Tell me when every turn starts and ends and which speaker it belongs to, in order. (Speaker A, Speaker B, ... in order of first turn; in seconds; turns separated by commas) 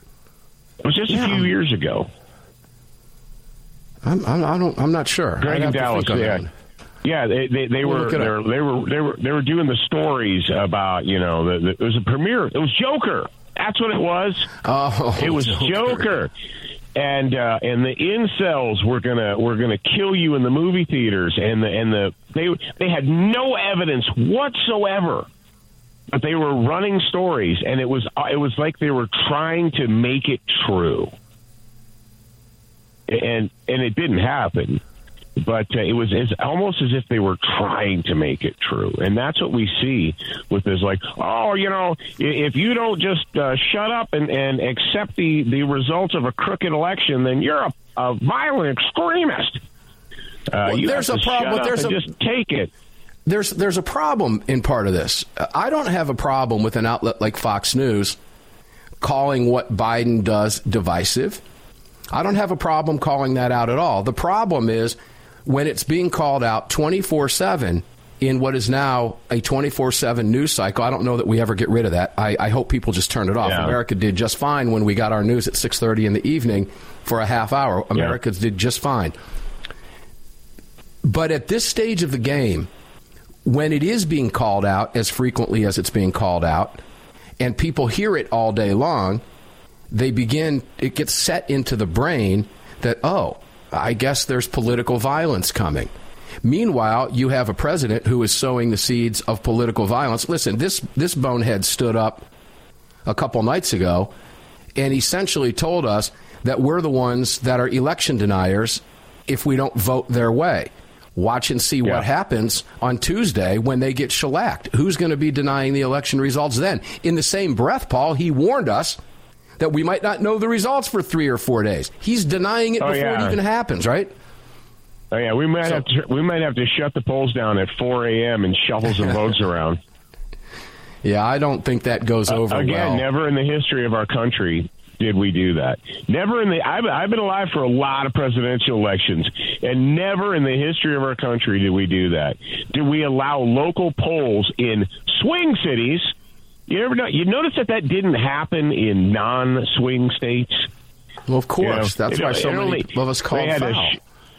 Speaker A: 0.8-2.1, Speaker B: 1.1-1.5, Speaker B: 4.0-6.5, Speaker A: 5.4-6.4, Speaker A: 7.0-14.6, Speaker B: 7.8-8.3, Speaker B: 14.6-16.1, Speaker A: 15.2-16.3, Speaker A: 16.9-25.3, Speaker A: 26.1-31.1, Speaker A: 33.1-34.8, Speaker A: 35.4-49.6, Speaker A: 50.5-52.7, Speaker B: 50.6-52.1, Speaker B: 53.2-58.2, Speaker B: 59.0-61.4, Speaker B: 62.1-79.2, Speaker A: 73.4-73.8, Speaker B: 81.0-82.7, Speaker B: 83.5-86.8, Speaker B: 87.4-89.2, Speaker B: 89.9-95.9, Speaker B: 96.4-102.3, Speaker B: 103.1-104.1, Speaker B: 104.8-119.0, Speaker B: 119.6-124.1, Speaker A: 122.8-123.4, Speaker A: 125.1-129.8, Speaker B: 131.0-133.1, Speaker A: 132.3-146.1, Speaker A: 146.7-150.7, Speaker B: 151.3-154.0, Speaker A: 151.6-154.0